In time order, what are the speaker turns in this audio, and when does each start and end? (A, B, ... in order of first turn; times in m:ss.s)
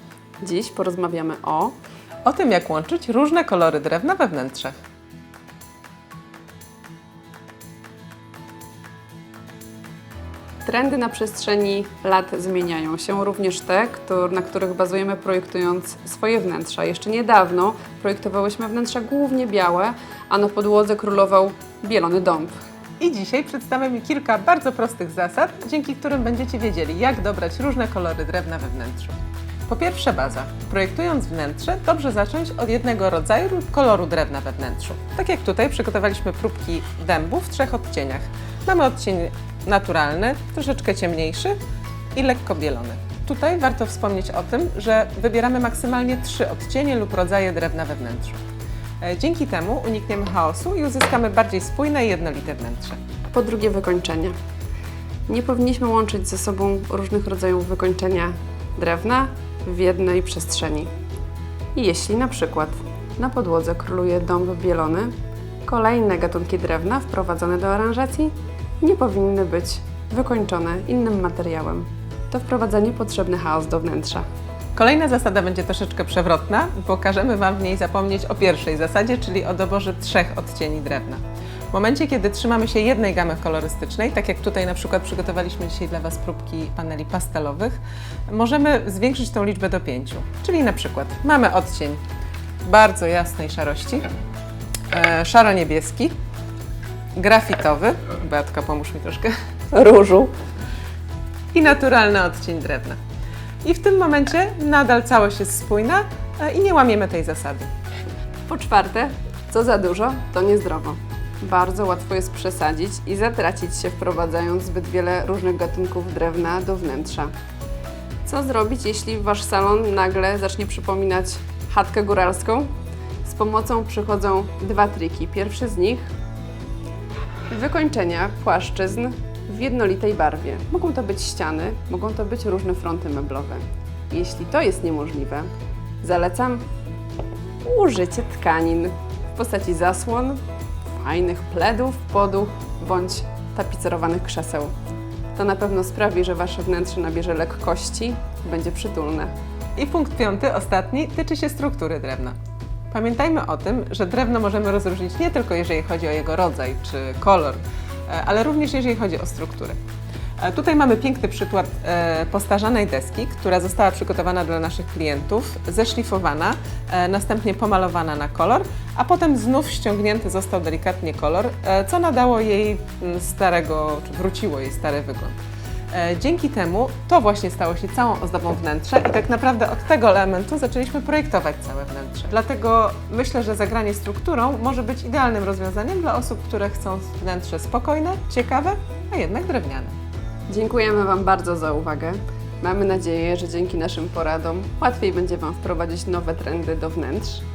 0:00.4-0:01.8 A
0:02.2-0:04.8 B
0:10.7-0:22.5 A
0:23.0-0:41.6 B
0:42.1-0:48.4 B
0:49.0-0:53.0 B
0:53.3-0:54.4 A
0:55.3-1:00.9 A
1:01.8-1:05.1 A
1:05.7-1:14.2 A
1:14.8-1:27.8 B
1:28.3-1:32.0 B
1:32.6-1:34.1 B
1:34.9-1:36.2 B
1:37.2-1:39.3 B
1:39.7-1:40.3 A
1:41.5-1:43.0 B
1:43.6-1:47.7 B
1:48.5-1:57.3 A
1:58.3-2:02.7 A
2:03.2-2:06.1 A
2:07.5-2:15.5 A
2:16.0-2:16.6 A
2:17.6-2:24.7 A
2:25.4-2:29.3 A
2:29.8-2:32.4 B
2:32.9-2:39.8 B
2:40.4-2:55.4 B
2:55.9-3:09.9 B
3:10.5-3:17.4 A